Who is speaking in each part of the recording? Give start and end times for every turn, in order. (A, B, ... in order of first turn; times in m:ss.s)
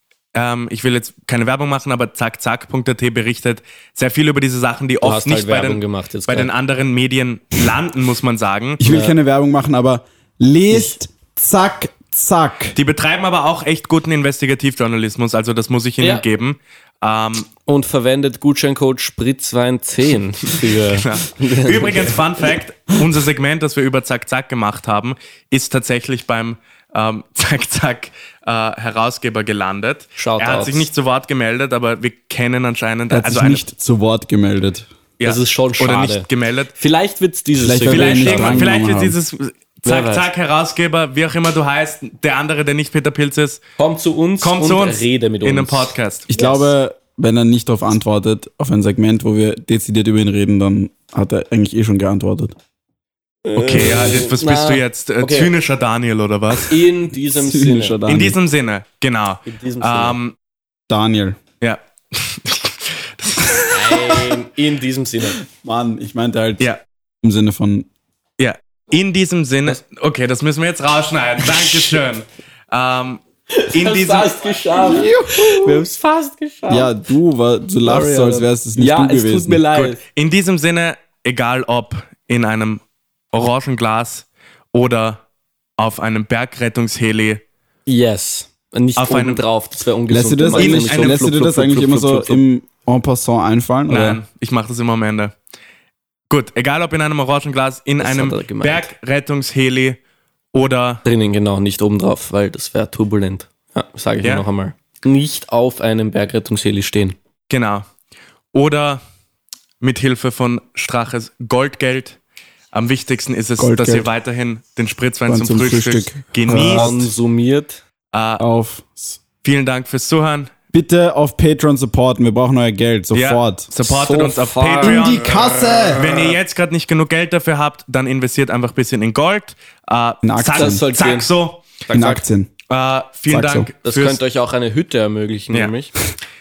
0:00.3-0:08.8 A
0:05.0-0:06.5 B
0:08.8-0:12.8 C
0:08.8-0:09.2 B
0:12.8-0:17.5 A
0:16.0-0:16.2 B
0:17.6-0:22.2 B
0:20.8-0:33.6 A
0:30.2-0:30.9 B
0:33.1-0:34.9 C
0:35.2-0:36.7 A
0:35.2-0:38.7 B
0:37.6-0:39.1 C
0:37.8-0:43.6 A
0:39.8-0:40.2 B
0:43.8-0:46.7 B
0:44.4-0:46.3 A
0:46.3-0:52.5 C
0:53.4-0:55.5 B
0:53.6-0:56.8 A
0:56.7-0:58.0 B
0:57.4-0:58.4 C
0:58.1-1:00.3 A
0:59.4-1:00.2 B
1:00.9-1:01.4 C
1:01.6-1:04.3 A
1:03.7-1:05.4 B
1:05.5-1:06.7 C
1:07.2-1:07.9 C
1:08.4-1:14.4 A
1:13.5-1:16.9 B
1:14.7-1:15.8 C
1:16.7-1:19.6 C
1:17.8-1:20.0 B
1:19.7-1:22.8 A
1:23.3-1:25.2 A
1:25.8-1:27.4 A
1:27.9-1:32.4 B
1:29.0-1:29.4 A
1:30.1-1:34.2 C
1:30.5-1:31.2 A
1:33.9-1:35.3 A
1:36.3-1:40.0 A
1:38.0-1:38.9 B
1:40.5-1:41.0 A
1:41.0-1:47.2 B
1:47.5-1:47.8 A
1:48.5-1:49.0 A
1:49.8-1:52.2 A
1:52.7-1:56.9 A
1:53.6-1:54.0 C
1:55.3-1:57.1 C
1:56.5-1:57.8 B
1:58.1-1:58.4 A
1:58.4-1:59.2 C
1:59.4-2:00.5 A
2:00.7-2:03.7 C
2:03.1-2:11.8 A
2:03.8-2:05.1 B
2:04.8-2:06.1 C
2:10.2-2:10.8 C
2:10.5-2:11.3 B
2:11.8-2:12.2 B
2:11.9-2:12.5 C
2:12.7-2:14.2 A
2:13.3-2:13.7 C
2:13.8-2:15.9 B